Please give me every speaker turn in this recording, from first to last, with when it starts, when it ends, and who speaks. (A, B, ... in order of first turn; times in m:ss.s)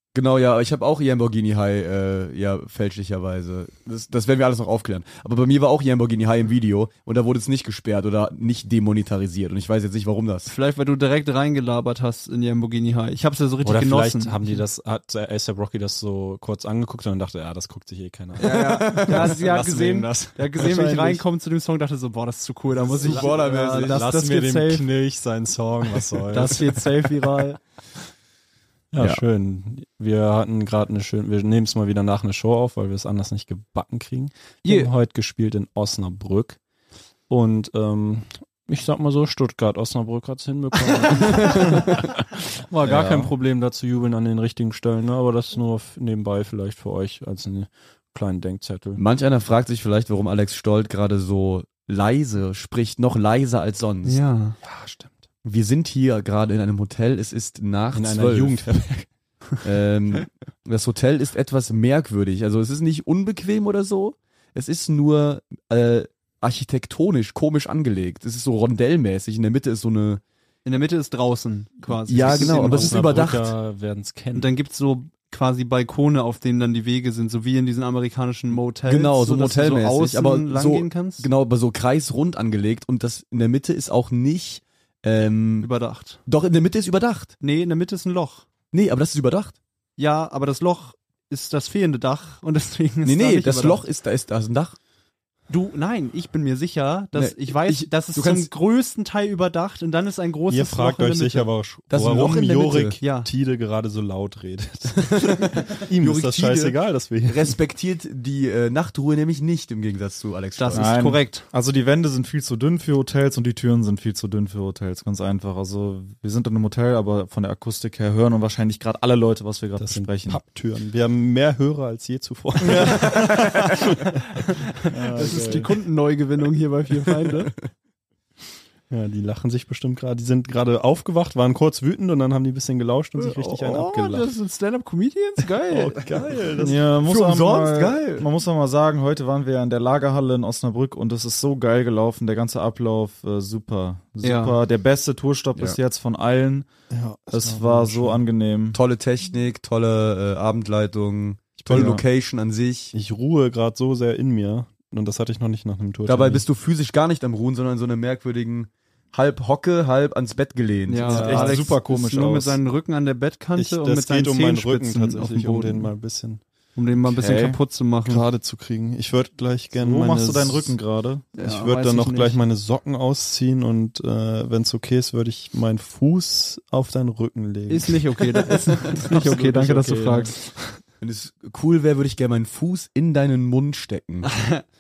0:00.1-0:10.5 A
0:10.5-0:14.6 B
0:13.6-0:21.2 C
0:18.4-0:19.4 A
0:18.4-0:24.9 B
0:22.8-0:27.3 C
0:22.9-0:24.2 A
0:26.3-0:27.6 B
0:28.9-0:36.6 C
0:34.6-0:34.9 B
0:37.3-0:42.1 C
0:42.7-0:49.0 C
0:42.8-0:43.3 D
0:49.0-0:54.2 A
0:54.0-0:54.6 B
0:54.6-0:55.2 C
0:55.4-0:58.6 A
0:57.9-0:59.1 C
0:59.6-1:10.2 A
1:10.6-1:13.3 B
1:11.9-1:13.5 A
1:12.1-1:14.5 C
1:14.4-1:21.3 B
1:18.9-1:25.7 A
1:25.6-1:26.2 B
1:26.3-1:27.3 A
1:27.4-1:28.5 B
1:28.7-1:29.6 A
1:30.0-1:33.8 B
1:33.0-1:34.8 A
1:35.5-1:41.5 B
1:37.1-1:38.5 A
1:40.5-1:47.6 C
1:41.9-1:43.0 A
1:43.0-1:43.3 B
1:46.0-1:51.0 A
1:50.6-1:51.5 B
1:50.7-2:00.4 D
1:59.8-2:03.8 C
2:04.8-2:05.7 C
2:04.9-2:05.7 D
2:05.2-2:07.5 B
2:08.9-2:14.3 C
2:13.2-2:16.0 B
2:15.7-2:16.8 C
2:16.6-2:26.7 D
2:17.0-2:18.3 A
2:24.2-2:24.6 B
2:26.9-2:28.2 C
2:27.3-2:28.8 D
2:28.7-2:32.9 A
2:31.6-2:32.0 D
2:32.9-2:36.4 C
2:36.1-2:41.6 A
2:40.9-2:45.9 B
2:41.1-2:42.6 D
2:41.1-2:41.6 C
2:43.6-2:46.4 C
2:46.8-2:48.3 B
2:47.1-2:47.6 D
2:48.0-2:50.8 C
2:49.8-2:51.2 D
2:51.3-2:52.4 B
2:51.4-3:00.8 C
2:57.7-3:00.6 B
3:01.0-3:04.3 A
3:04.2-3:04.6 B